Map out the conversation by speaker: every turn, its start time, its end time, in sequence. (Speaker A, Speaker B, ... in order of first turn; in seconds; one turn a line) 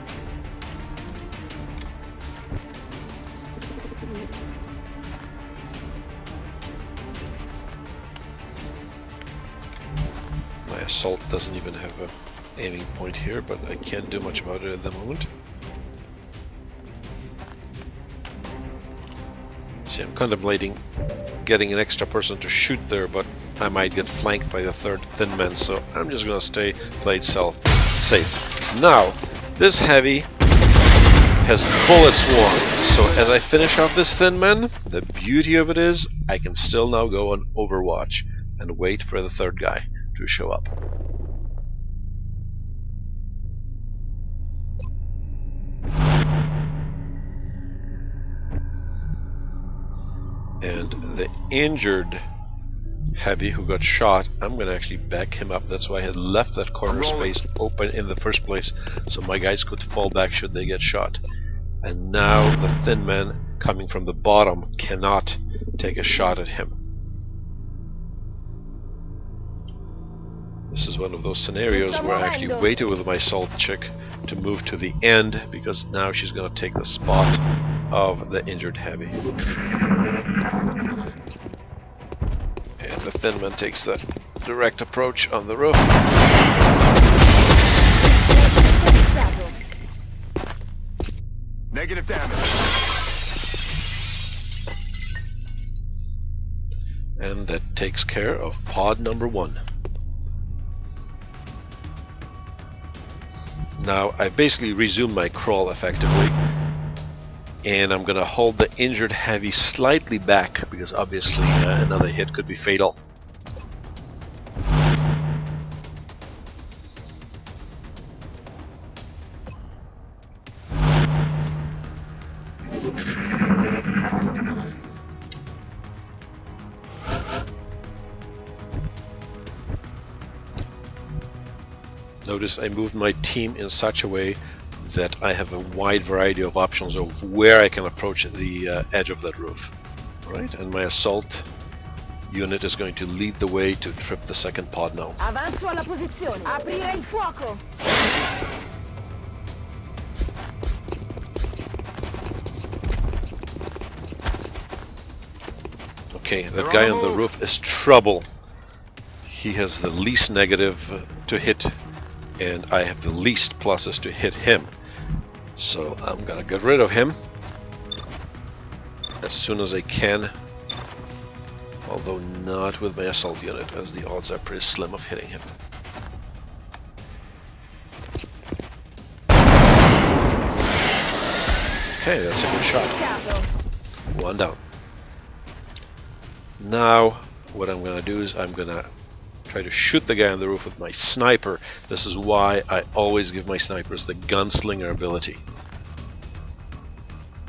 Speaker A: 10.7-15.3
Speaker A: 19.9-20.8
Speaker A: 21.4-30.3
Speaker A: 31.4-40.7
Speaker A: 50.6-52.2
Speaker A: 53.2-61.2
Speaker B: 56.9-57.4
Speaker A: 61.8-66.8
Speaker A: 70.7-79.2
Speaker C: 71.7-72.7
Speaker A: 82.8-86.0
Speaker C: 88.0-89.6
Speaker B: 91.7-92.6
Speaker A: 97.2-99.6
Speaker A: 103.8-106.4
Speaker A: 107.6-113.0
Speaker A: 132.2-139.7
Speaker A: 140.3-141.5
Speaker A: 142.3-145.2
Speaker C: 145.2-147.6
Speaker A: 156.1-158.3
Speaker B: 156.6-157.2
Speaker A: 159.2-161.8
Speaker A: 162.4-164.7
Speaker A: 165.6-167.2
Speaker A: 169.2-170.3
Speaker A: 171.9-175.5
Speaker A: 182.0-183.1
Speaker C: 182.9-183.5
Speaker A: 184.1-184.6
Speaker A: 186.6-188.9
Speaker A: 189.5-195.4